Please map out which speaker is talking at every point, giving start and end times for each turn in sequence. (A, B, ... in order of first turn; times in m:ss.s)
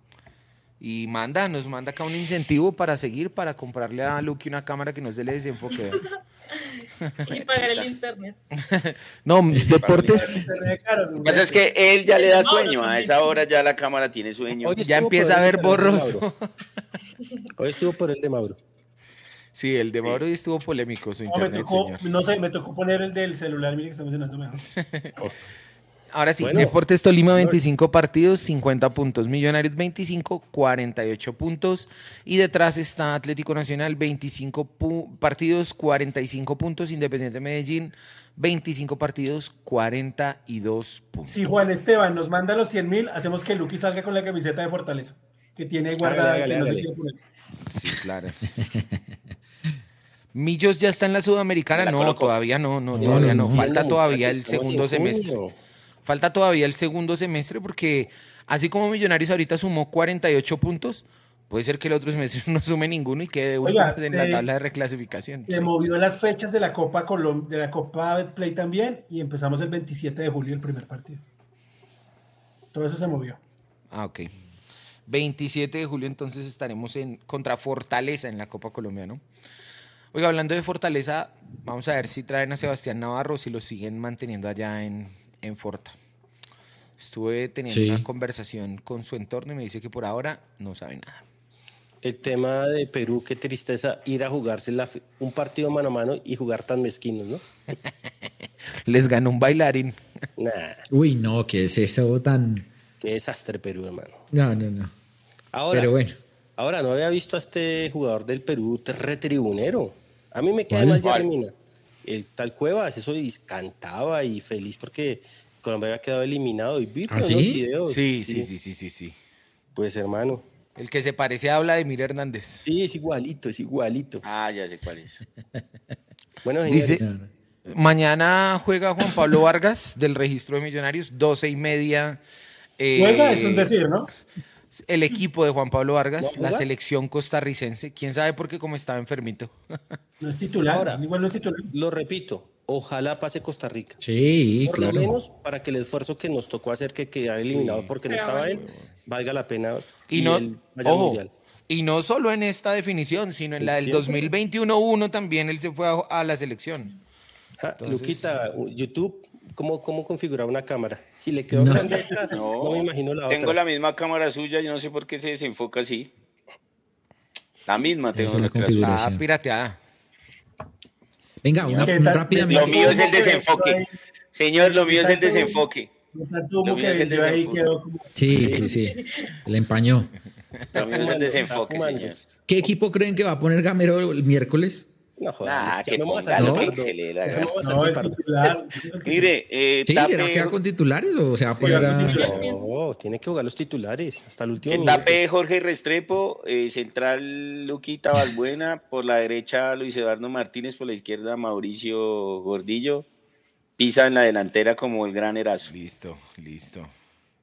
0:00.8-0:06.1 A
0:05.8-0:08.4 B
0:07.0-0:07.9 A
0:08.6-0:10.4 A
0:09.7-0:10.4 C
0:10.0-0:11.6 D
0:11.2-0:14.8 C
0:12.0-0:13.4 B
0:14.6-0:16.3 E
0:14.8-0:16.5 A
0:17.6-0:18.6 E
0:19.6-0:22.0 A
0:21.3-0:24.6 D
0:24.8-0:25.1 A
0:26.1-0:41.6 A
0:26.4-0:26.8 E
0:27.3-0:27.6 E
0:41.3-0:47.2 D
0:46.0-0:46.9 E
0:47.7-0:48.4 A
0:48.6-0:49.0 F
0:50.3-0:55.4 A
0:51.8-0:52.4 C
0:52.9-0:53.7 F
0:53.0-0:55.6 E
0:56.0-1:05.7 A
1:03.6-1:04.4 D
1:05.5-1:11.2 D
1:12.7-1:13.4 D
1:13.9-1:14.3 A
1:15.1-1:19.2 A
1:20.1-1:26.0 A
1:27.0-1:31.2 A
1:27.7-1:28.0 F
1:32.0-1:37.4 E
1:38.9-1:40.0 A
1:40.4-1:40.9 E
1:40.9-1:42.7 F
1:43.0-1:44.2 E
1:44.3-1:44.9 F
1:45.5-1:45.9 E
1:45.7-1:46.2 F
1:46.6-1:51.5 E
1:50.7-1:51.0 F
1:51.0-1:51.3 C
1:52.0-1:58.5 E
1:57.1-1:57.6 F
1:57.9-1:59.2 A
1:59.8-2:00.4 E
2:00.8-2:02.7 A
2:02.6-2:04.2 E
2:04.2-2:05.2 C
2:06.4-2:07.1 E
2:06.7-2:07.1 A
2:06.9-2:07.3 F
2:07.6-2:12.2 A
2:12.8-2:13.8 A
2:13.0-2:14.1 D
2:14.7-2:20.0 A
2:16.2-2:16.7 E
2:20.2-2:21.7 D
2:20.7-2:21.0 E
2:21.7-2:24.0 E
2:24.0-2:25.1 F
2:24.7-2:31.3 E
2:27.4-2:28.0 A
2:28.0-2:28.6 B
2:28.6-2:28.9 A
2:30.1-2:36.9 A
2:33.6-2:34.3 E
2:37.6-2:43.6 E
2:37.8-2:38.3 A
2:41.5-2:41.9 F
2:41.7-2:42.3 D
2:42.3-2:46.1 C
2:47.7-2:48.9 C
2:48.2-2:49.2 F
2:48.3-2:49.8 A
2:51.4-2:53.0 F
2:51.7-2:55.9 C
2:51.8-2:54.0 D
2:54.6-2:58.7 D
2:56.6-2:57.7 C
2:58.2-3:00.1 F
2:58.3-2:58.7 E
2:58.9-2:59.4 B
3:00.6-3:01.1 A
3:00.7-3:02.2 E
3:00.7-3:02.2 C
3:02.5-3:04.9 F
3:05.2-3:08.2 E
3:05.4-3:07.6 C
3:06.4-3:06.7 F
3:07.6-3:09.3 D
3:09.0-3:10.6 C
3:09.9-3:12.3 F
3:11.5-3:12.5 D
3:12.0-3:12.6 B
3:12.1-3:15.2 E
3:14.7-3:23.1 C
3:23.8-3:25.7 C
3:25.7-3:26.9 A